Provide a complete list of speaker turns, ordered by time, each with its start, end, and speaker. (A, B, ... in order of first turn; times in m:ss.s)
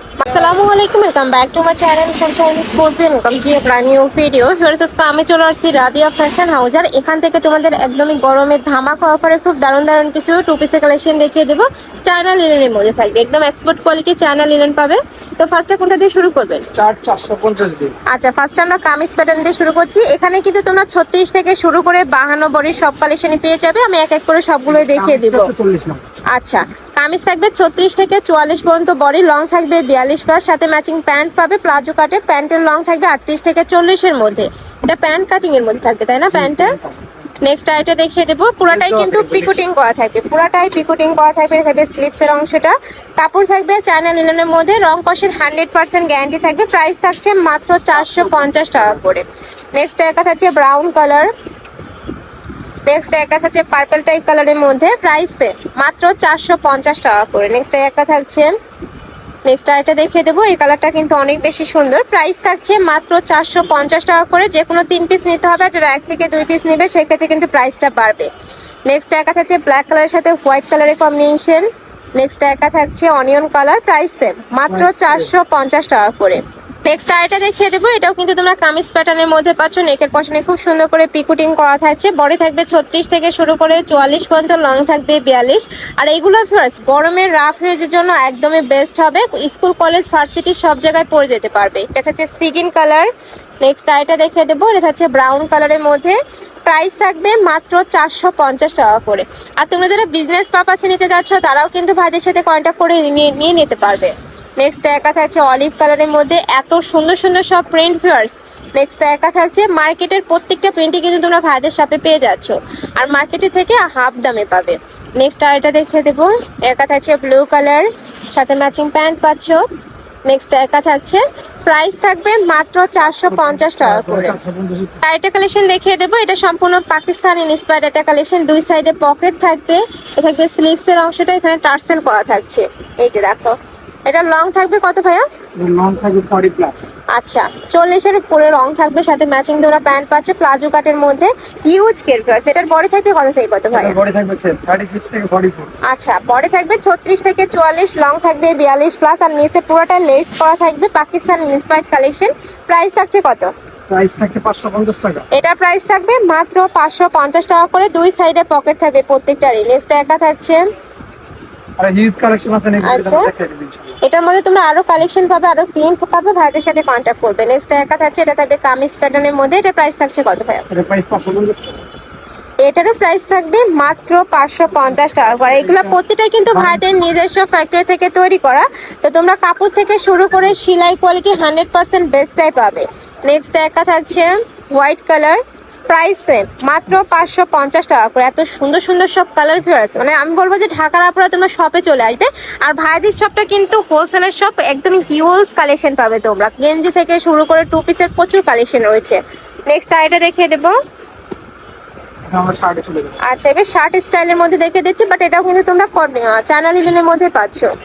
0:00.2-0:16.7 A
0:16.7-0:18.0 B
0:18.1-0:25.5 A
0:24.7-0:26.0 B
0:26.3-0:36.8 A
0:36.2-0:37.1 B
0:37.4-0:51.3 A
0:38.7-0:39.6 B
0:47.9-0:49.0 B
0:52.8-0:58.6 A
0:59.4-1:08.3 A
1:08.8-1:33.1 A
1:14.7-1:15.3 B
1:33.6-1:59.6 A
2:00.2-2:04.4 A
2:03.0-2:05.0 B
2:05.0-2:15.2 A
2:15.6-2:16.8 B
2:17.1-2:24.0 A
2:23.7-2:25.7 B
2:25.9-2:33.5 A
2:33.9-2:35.3 B
2:35.3-2:40.6 A
2:41.8-2:44.0 B
2:42.8-2:43.3 A
2:44.0-2:50.6 A
2:50.7-2:51.8 B
2:52.6-3:20.7 A
2:55.3-2:56.0 B
2:56.5-2:56.9 B
3:22.3-3:23.2 B
3:23.2-3:27.7 A